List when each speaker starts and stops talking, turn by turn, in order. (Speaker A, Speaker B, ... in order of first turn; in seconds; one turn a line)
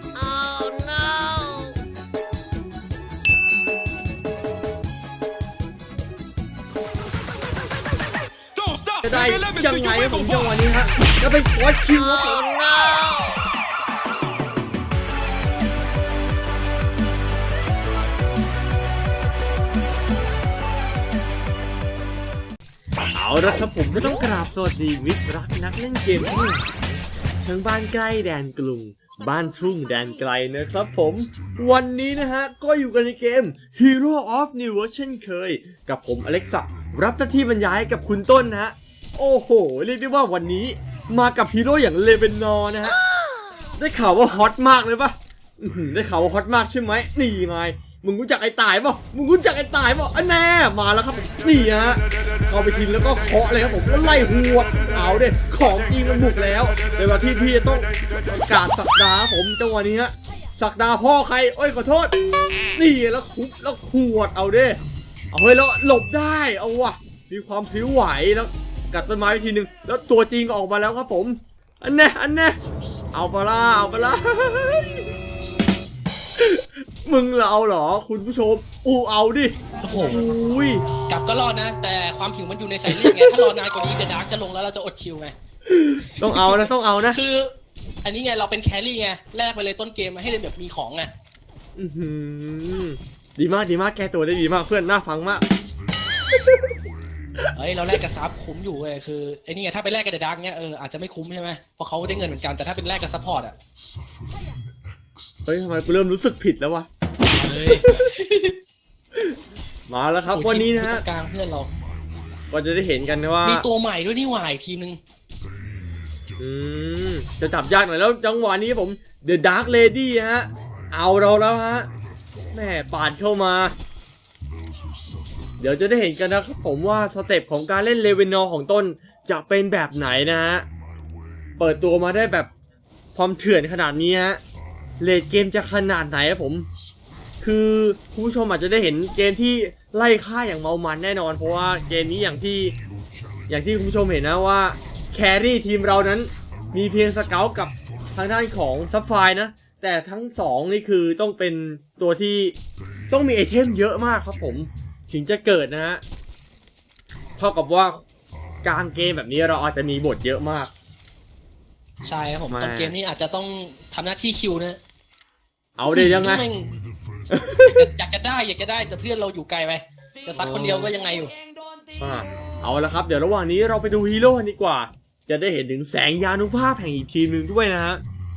Speaker A: 8.5-10.8
Speaker B: 9.0-12.6
Speaker B: 23.1-43.0
Speaker B: 43.8-62.1
Speaker B: 62.7-72.6
Speaker B: 73.1-75.1
Speaker B: 76.4-80.8
Speaker C: 79.8-80.2
Speaker C: 81.0-85.3
Speaker B: 82.9-83.5
Speaker B: 85.7-87.2
Speaker C: 86.1-91.1
Speaker B: 91.8-95.4
Speaker B: 96.3-96.7
Speaker C: 97.5-103.6
Speaker B: 105.5-106.9
Speaker C: 107.3-108.6
Speaker B: 107.7-108.1
Speaker B: 109.9-111.0
Speaker C: 110.3-111.7
Speaker B: 112.5-113.6
Speaker C: 113.4-115.0
Speaker B: 116.4-121.9
Speaker B: 122.5-123.7
Speaker B: 125.6-130.7
Speaker B: 131.6-132.5
Speaker B: 133.1-134.4
Speaker B: 135.0-136.7
Speaker B: 137.4-142.8
Speaker B: 143.5-152.6
Speaker B: 153.1-156.0
Speaker B: 157.4-158.0
Speaker B: 158.6-160.7
Speaker C: 162.0-164.8
Speaker B: 162.5-162.9
Speaker B: 165.8-166.5
Speaker C: 165.9-166.8
Speaker B: 167.3-167.9
Speaker C: 167.5-171.3
Speaker B: 170.3-170.9
Speaker B: 172.0-178.0